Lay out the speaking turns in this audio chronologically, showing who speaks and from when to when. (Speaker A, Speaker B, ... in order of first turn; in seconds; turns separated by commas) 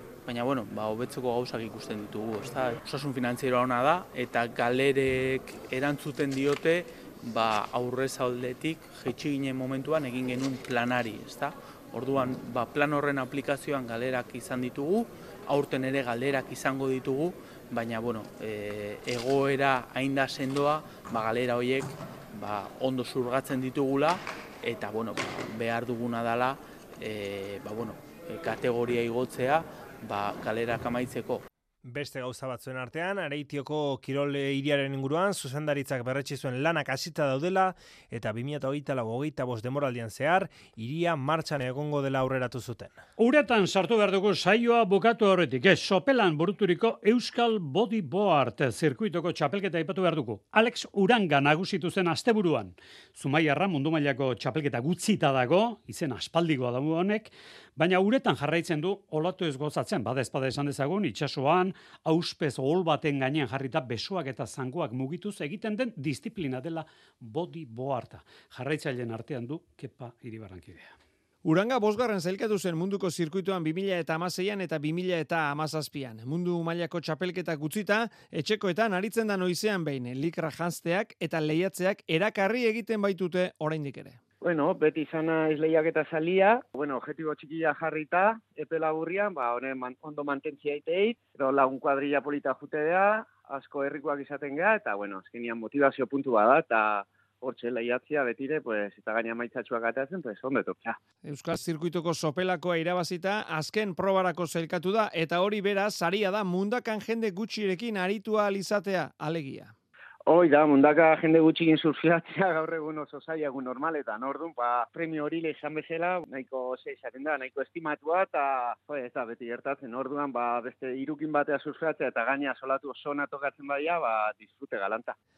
Speaker A: 0.2-31.4, Speaker B: 31.8-43.0, Speaker C: 43.2-71.0, Speaker D: 71.4-84.2, Speaker E: 84.4-101.0, Speaker D: 101.2-109.7, Speaker E: 110.3-125.2